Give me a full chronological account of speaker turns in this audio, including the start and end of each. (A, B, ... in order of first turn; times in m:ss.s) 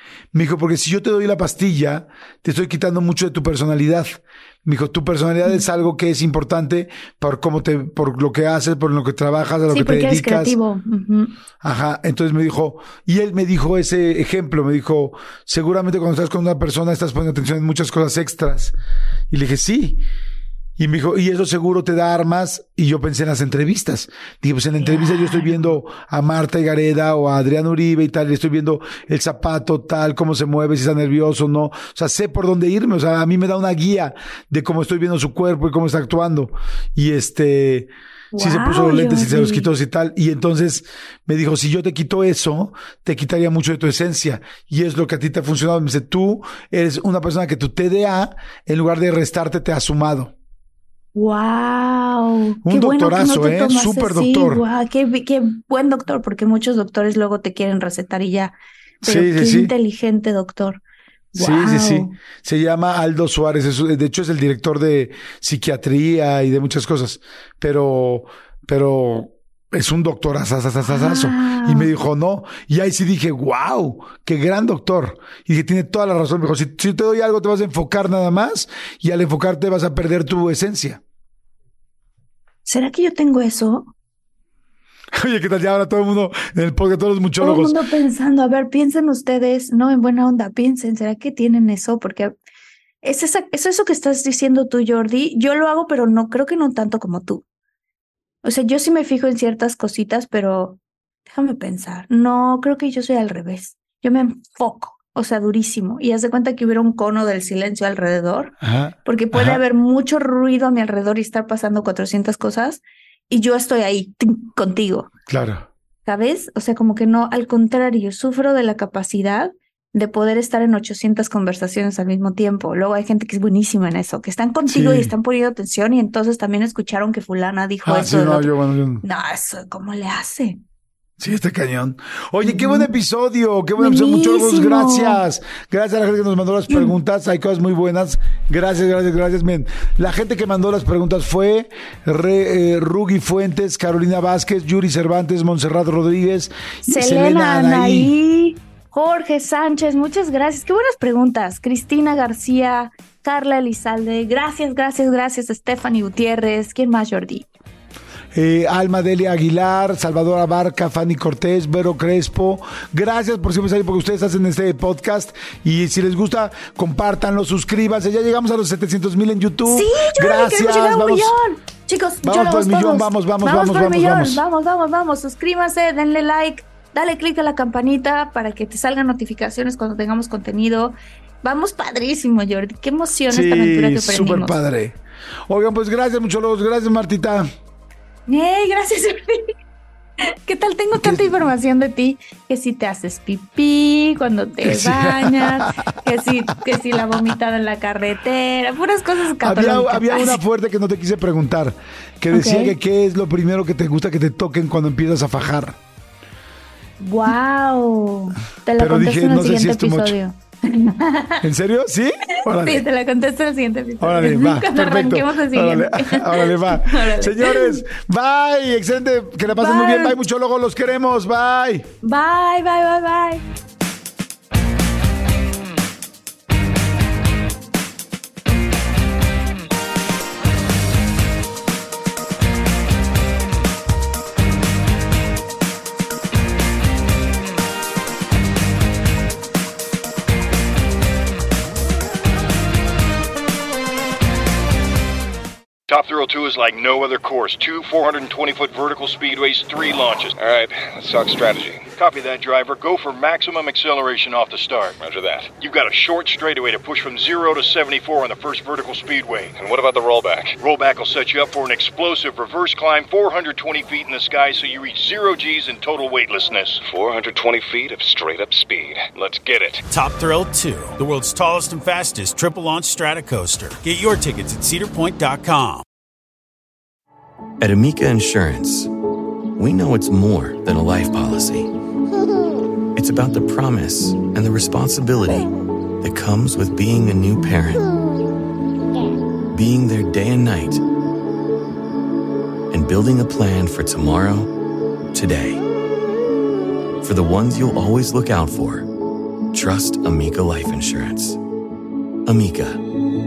0:00.3-0:10.6 A
0:09.7-0:11.4 B
0:11.6-0:18.8 A
0:19.3-0:20.0 A
0:20.8-0:50.3 A
0:24.8-0:25.6 B
0:38.3-0:39.7 B
0:51.2-1:00.8 B
0:52.6-0:54.6 A
0:59.0-0:59.7 A
1:01.3-1:21.0 A
1:01.4-1:02.2 B
1:10.8-1:11.9 B
1:22.7-1:23.9 B
1:25.1-1:27.8 A
1:27.4-1:32.3 B
1:33.0-1:37.4 B
1:38.4-1:48.5 B
1:48.6-1:49.6 A
1:49.0-1:55.1 B
1:55.3-1:55.7 A
1:56.0-2:10.6 B
2:04.7-2:05.1 A
2:07.8-2:09.0 A
2:11.2-2:28.1 A
2:12.4-2:12.9 B
2:13.8-2:15.2 B
2:26.9-2:37.5 B
2:38.3-2:51.3 A
2:49.7-3:04.6 B
2:52.2-2:54.4 A
3:03.3-3:07.5 A
3:08.3-3:09.5 B
3:10.3-3:20.4 B
3:11.0-3:11.5 A
3:14.6-3:15.8 A
3:19.4-3:25.8 A
3:22.3-3:22.7 B
3:27.0-3:31.4 B
3:28.8-3:30.2 A
3:31.4-3:32.9 A
3:32.5-3:37.8 B
3:34.0-3:41.9 A
3:39.5-3:40.2 B
3:42.0-3:43.4 B
4:05.9-4:10.3 C
4:10.4-4:12.0 D
4:11.9-4:15.0 C
4:15.0-4:15.6 D
4:15.6-4:19.5 C
4:19.6-4:20.6 D
4:20.6-4:26.8 C
4:26.8-4:29.8 D
4:29.9-4:35.8 E
4:37.6-4:38.9 F
4:39.6-4:41.7 F
4:43.0-4:45.5 F
4:46.0-4:47.9 F
4:49.5-4:50.8 F
4:52.7-4:54.5 F
4:55.1-4:55.6 F
4:57.0-4:58.9 F
4:59.5-5:01.4 F
5:02.3-5:02.8 F